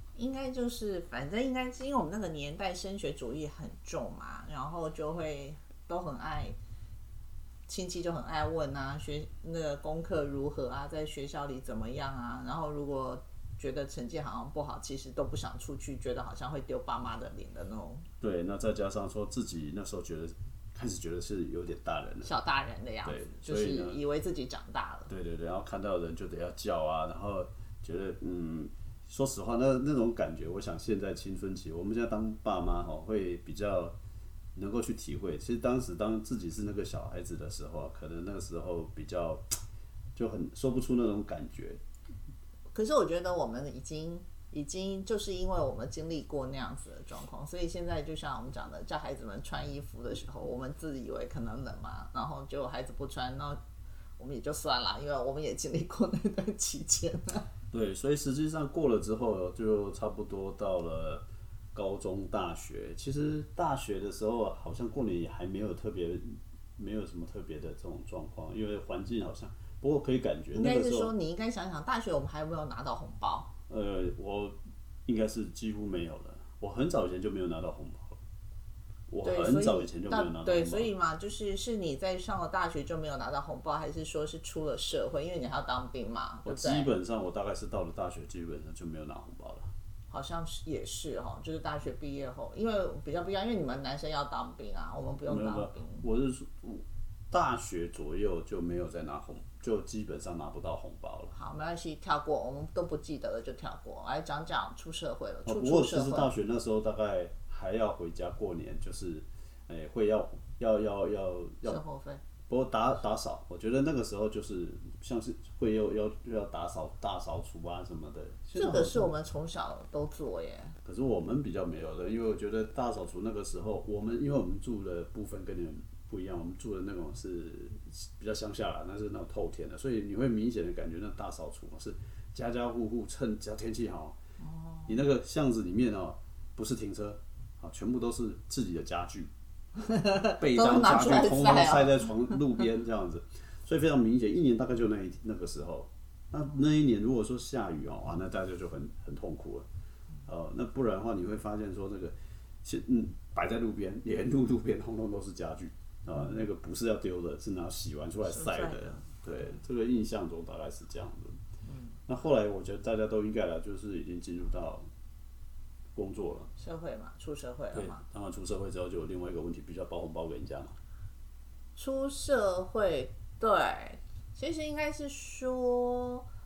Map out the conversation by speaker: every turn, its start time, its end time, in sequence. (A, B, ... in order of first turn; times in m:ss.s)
0:00.2-0:06.6 A
0:07.7-0:18.1 A
0:18.2-0:22.3 B
0:22.2-0:25.1 A
0:23.0-0:24.0 B
0:25.1-0:34.0 B
0:34.6-0:39.5 B
0:40.2-0:41.8 B
0:42.7-0:53.6 A
0:54.2-0:57.5 A
0:57.7-1:11.1 B
1:10.5-1:13.5 A
1:13.7-1:18.2 B
1:19.1-1:20.9 B
1:19.2-1:26.9 A
1:26.4-1:29.7 B
1:30.1-1:36.0 A
1:35.3-1:41.3 B
1:41.3-1:46.3 A
1:45.5-1:51.8 B
1:51.6-1:52.2 A
1:52.5-1:59.1 B
1:58.5-2:00.8 A
2:00.8-2:14.2 B
2:14.4-2:15.0 A
2:14.9-2:19.3 B
2:19.8-2:22.4 A
2:20.4-2:29.7 B
2:30.3-2:41.4 B
2:38.3-2:39.0 A
2:41.7-2:42.0 A
2:42.1-2:44.8 B
2:46.0-2:46.5 B
2:46.6-2:48.0 A
2:47.7-2:50.8 B
2:51.8-2:56.3 A